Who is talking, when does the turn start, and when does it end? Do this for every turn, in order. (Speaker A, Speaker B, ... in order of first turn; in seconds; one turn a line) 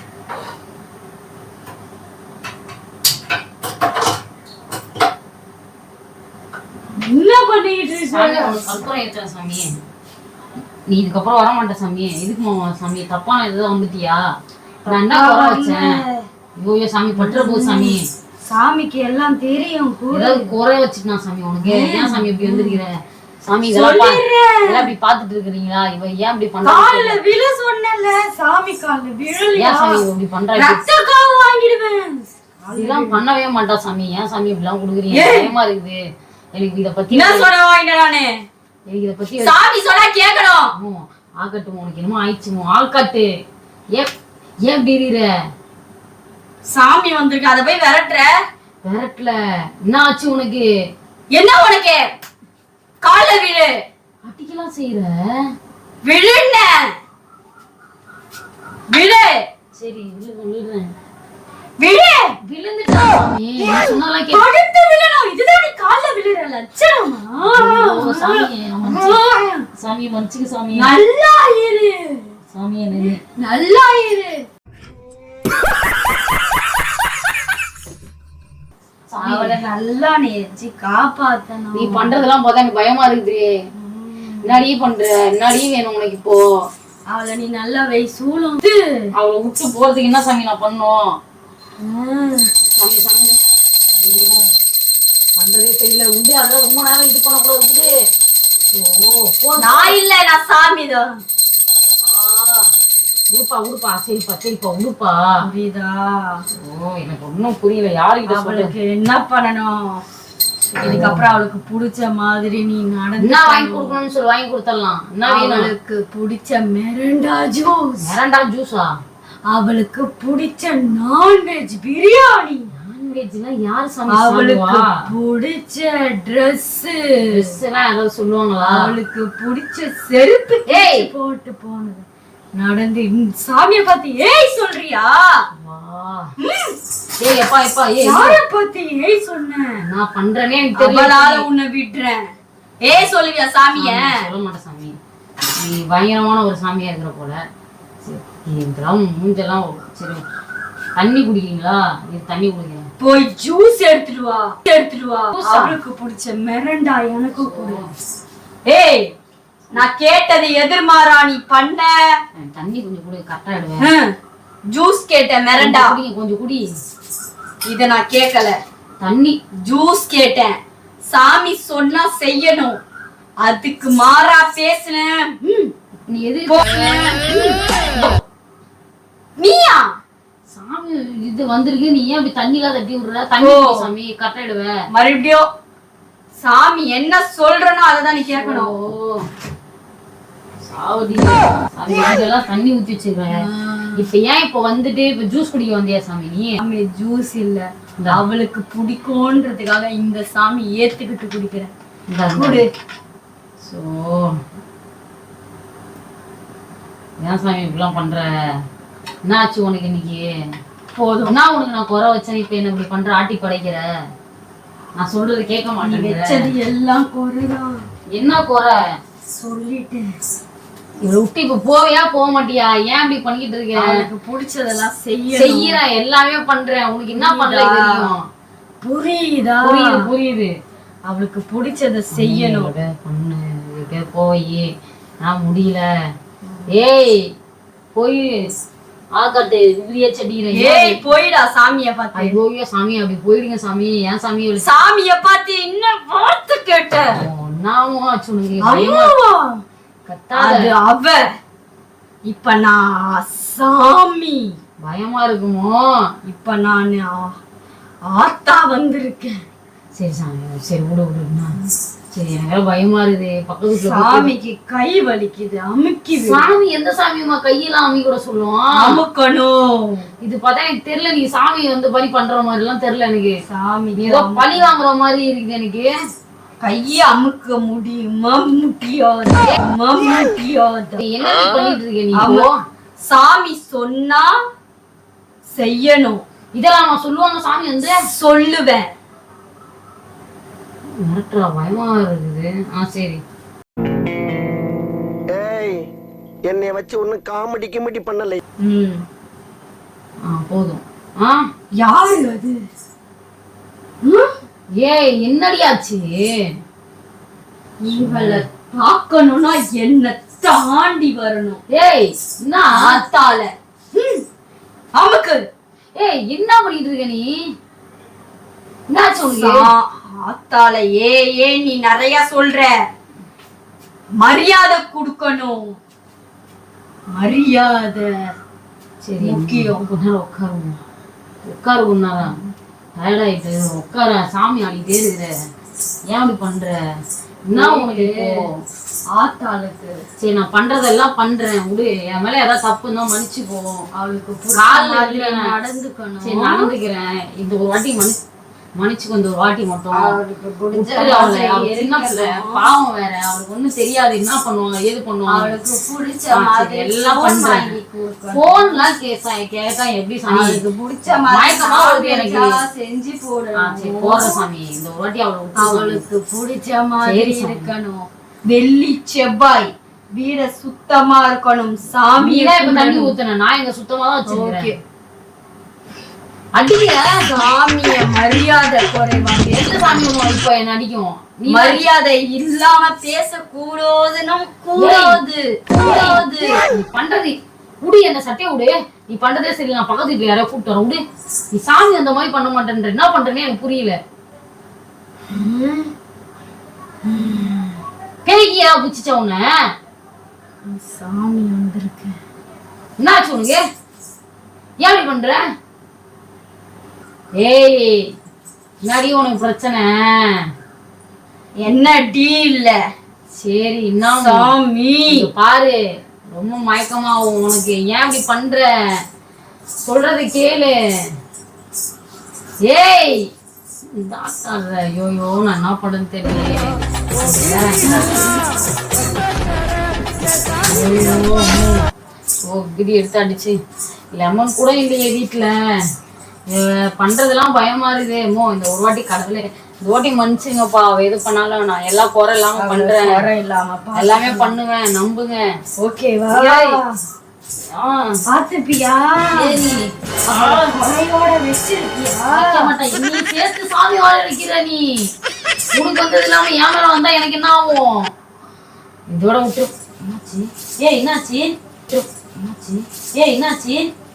Speaker A: 6.9-8.6
Speaker B: 8.1-9.7
Speaker B: 10.9-14.2
Speaker B: 14.8-16.0
Speaker A: 14.9-16.2
Speaker B: 16.6-18.1
Speaker A: 17.2-20.5
Speaker B: 20.1-27.2
Speaker A: 21.6-22.8
Speaker A: 23.7-24.9
Speaker A: 26.6-30.0
Speaker B: 29.6-30.8
Speaker A: 30.6-33.2
Speaker B: 32.7-36.0
Speaker A: 35.1-35.5
Speaker B: 36.5-37.5
Speaker A: 37.1-38.4
Speaker B: 38.9-39.5
Speaker A: 39.4-40.7
Speaker B: 40.7-43.3
Speaker B: 44.7-45.3
Speaker A: 46.7-48.4
Speaker B: 48.8-49.3
Speaker B: 49.9-50.6
Speaker A: 51.3-52.1
Speaker A: 53.0-53.8
Speaker B: 54.2-55.2
Speaker A: 56.0-56.9
Speaker A: 58.9-59.5
Speaker B: 59.8-60.9
Speaker A: 61.8-62.4
Speaker B: 62.4-64.4
Speaker A: 63.6-69.7
Speaker B: 67.4-69.2
Speaker B: 69.8-70.9
Speaker A: 70.7-72.3
Speaker B: 72.5-73.2
Speaker A: 73.0-74.5
Speaker B: 79.1-79.6
Speaker A: 79.2-82.2
Speaker B: 81.7-83.5
Speaker A: 83.8-84.6
Speaker B: 84.4-86.4
Speaker A: 87.1-89.1
Speaker B: 89.1-91.2
Speaker A: 91.8-92.5
Speaker B: 92.8-93.4
Speaker B: 94.0-94.5
Speaker B: 95.4-97.9
Speaker B: 98.7-100.0
Speaker A: 99.6-101.2
Speaker B: 102.0-102.7
Speaker B: 103.3-105.2
Speaker A: 105.4-106.4
Speaker B: 106.5-108.7
Speaker A: 108.3-110.0
Speaker A: 110.7-114.0
Speaker B: 110.7-111.2
Speaker B: 113.2-115.7
Speaker A: 115.3-118.1
Speaker B: 118.0-118.9
Speaker A: 119.5-122.7
Speaker B: 122.7-125.0
Speaker A: 124.1-127.5
Speaker B: 127.2-128.9
Speaker A: 128.6-135.4
Speaker B: 130.7-131.1
Speaker B: 135.5-136.3
Speaker A: 136.4-136.8
Speaker B: 137.2-138.4
Speaker A: 138.0-139.7
Speaker B: 139.8-141.4
Speaker A: 140.8-142.3
Speaker A: 142.8-144.3
Speaker B: 143.7-144.9
Speaker B: 145.6-147.4
Speaker B: 148.0-150.2
Speaker B: 151.0-152.8
Speaker A: 153.0-157.8
Speaker B: 155.3-155.8
Speaker B: 157.3-157.9
Speaker A: 158.7-159.1
Speaker A: 159.7-162.2
Speaker B: 162.3-163.9
Speaker A: 163.8-164.1
Speaker A: 164.7-166.0
Speaker B: 165.6-166.7
Speaker A: 167.6-168.6
Speaker B: 169.0-169.4
Speaker A: 169.6-172.8
Speaker A: 173.4-175.7
Speaker B: 176.1-176.8
Speaker A: 176.5-177.6
Speaker B: 177.9-178.2
Speaker A: 179.4-179.9
Speaker B: 180.5-184.7
Speaker A: 183.4-183.9
Speaker A: 184.9-185.5
Speaker A: 186.4-188.7
Speaker B: 188.3-189.2
Speaker B: 190.6-196.6
Speaker A: 193.4-194.0
Speaker A: 196.6-201.7
Speaker B: 202.1-202.6
Speaker A: 202.3-202.7
Speaker B: 203.6-204.4
Speaker B: 207.2-208.3
Speaker B: 209.2-210.3
Speaker A: 210.9-211.3
Speaker B: 211.2-213.8
Speaker B: 215.0-216.5
Speaker A: 215.8-217.8
Speaker B: 218.1-218.8
Speaker A: 219.3-220.1
Speaker B: 221.0-224.1
Speaker A: 223.7-225.8
Speaker B: 225.3-228.2
Speaker A: 227.1-228.1
Speaker A: 228.8-230.0
Speaker B: 229.6-230.5
Speaker A: 231.1-232.7
Speaker B: 232.1-234.7
Speaker B: 235.2-235.8
Speaker B: 236.7-237.3
Speaker B: 237.9-238.5
Speaker B: 239.1-241.0
Speaker A: 240.5-242.4
Speaker B: 242.1-244.7
Speaker A: 244.6-247.2
Speaker B: 247.1-249.1
Speaker A: 248.6-249.6
Speaker B: 250.1-250.7
Speaker A: 250.3-251.2
Speaker A: 252.3-254.5
Speaker B: 254.8-255.8
Speaker A: 256.2-257.3
Speaker A: 258.1-259.4
Speaker B: 260.0-261.6
Speaker B: 262.1-264.3
Speaker A: 263.8-266.5
Speaker B: 266.2-269.0
Speaker A: 268.7-270.1
Speaker B: 270.2-273.4
Speaker A: 273.5-274.7
Speaker B: 273.9-275.9
Speaker A: 276.6-281.0
Speaker B: 281.0-282.5
Speaker A: 281.6-282.5
Speaker A: 283.0-284.3
Speaker A: 285.5-286.2
Speaker B: 286.6-288.0
Speaker A: 288.1-288.9
Speaker B: 291.0-293.2
Speaker C: 295.3-295.8
Speaker C: 296.5-298.4
Speaker A: 298.6-299.0
Speaker B: 300.3-301.4
Speaker A: 301.8-302.6
Speaker A: 304.0-304.3
Speaker B: 304.8-306.5
Speaker A: 307.8-311.6
Speaker B: 307.9-308.5
Speaker B: 311.7-313.0
Speaker A: 312.7-314.2
Speaker A: 314.9-315.4
Speaker B: 315.9-317.4
Speaker B: 318.9-319.7
Speaker A: 319.3-322.8
Speaker A: 324.1-325.8
Speaker A: 327.1-328.1
Speaker B: 329.0-330.8
Speaker A: 329.2-329.9
Speaker B: 331.4-332.4
Speaker B: 333.0-335.3
Speaker B: 336.1-336.7
Speaker B: 337.5-338.5
Speaker A: 337.5-338.5
Speaker A: 339.1-340.0
Speaker B: 340.2-343.9
Speaker A: 343.9-346.7
Speaker B: 344.5-345.4
Speaker B: 346.2-348.2
Speaker B: 348.8-350.1
Speaker A: 349.9-352.7
Speaker B: 350.7-355.5
Speaker A: 355.3-358.8
Speaker B: 356.3-357.7
Speaker B: 358.3-362.6
Speaker A: 360.3-364.4
Speaker B: 363.6-366.0
Speaker A: 365.6-373.1
Speaker B: 367.0-367.7
Speaker B: 372.2-374.7
Speaker A: 374.3-374.8
Speaker B: 376.6-377.2
Speaker A: 377.2-380.1
Speaker B: 379.6-381.8
Speaker A: 381.5-386.6
Speaker B: 384.8-385.2
Speaker B: 385.8-391.0
Speaker B: 391.5-394.0
Speaker A: 395.3-395.9
Speaker A: 397.0-397.8
Speaker B: 398.2-399.4
Speaker A: 400.6-402.2
Speaker B: 403.0-403.6
Speaker B: 404.8-405.4
Speaker B: 407.4-408.1
Speaker B: 408.9-410.4
Speaker A: 411.6-412.8
Speaker B: 413.3-414.5
Speaker A: 414.2-415.3
Speaker B: 415.1-415.8
Speaker B: 416.3-418.6
Speaker B: 419.9-420.7
Speaker B: 422.6-423.3
Speaker B: 423.9-428.2
Speaker B: 430.7-431.8
Speaker B: 432.4-433.6
Speaker B: 434.2-435.5
Speaker B: 436.5-443.3
Speaker A: 442.6-444.5
Speaker B: 443.9-445.4
Speaker A: 445.8-447.0
Speaker B: 446.3-446.8
Speaker B: 447.7-448.2
Speaker A: 448.3-449.6
Speaker B: 449.3-450.8
Speaker A: 450.3-452.7
Speaker B: 452.3-455.1
Speaker B: 455.7-458.1
Speaker B: 459.1-463.9